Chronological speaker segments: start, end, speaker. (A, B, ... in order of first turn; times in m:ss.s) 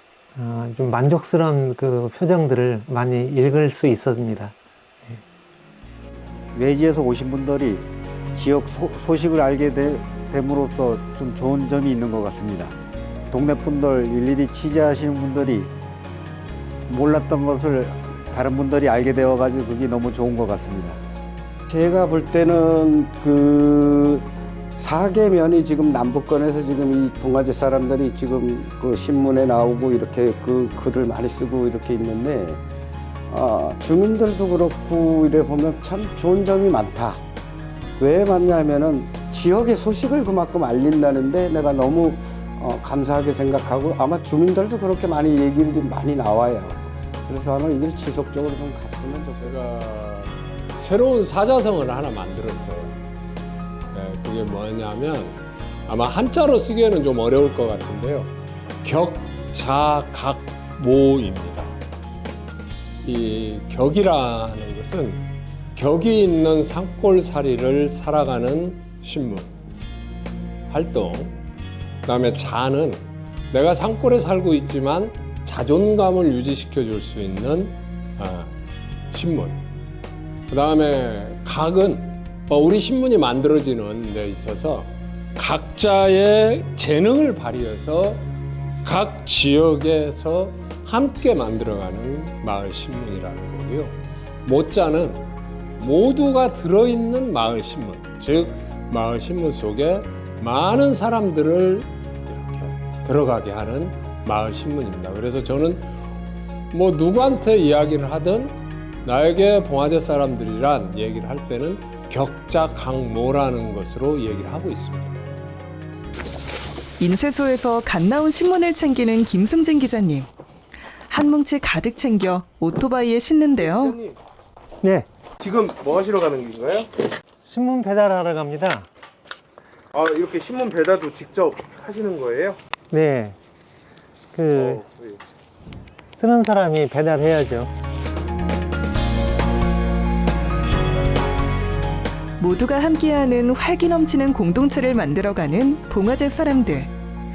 0:00.3-0:04.5 A
0:06.5-0:12.8 B
0:13.3-0:15.7 B
0:16.9-0:21.0 B
0:21.7-0:32.6 C
0:33.3-0:37.2 C
0:38.0-0:49.6 C
0:49.4-0:52.9 D
0:53.9-1:01.8 D
1:03.0-1:09.5 D
1:10.7-1:11.4 D
1:12.0-1:18.5 D
1:19.1-1:19.6 D
1:20.5-1:28.2 D
1:28.8-1:35.2 D
1:35.8-1:45.9 D
1:46.7-1:55.2 D
1:57.0-2:00.3 E
2:01.1-2:04.0 E
2:03.6-2:04.2 F
2:04.8-2:05.1 A
2:05.4-2:06.9 F
2:07.4-2:08.9 A
2:09.9-2:12.6 F
2:12.9-2:13.4 A
2:14.3-2:14.8 A
2:14.5-2:15.2 F
2:16.1-2:17.7 A
2:22.4-2:26.9 E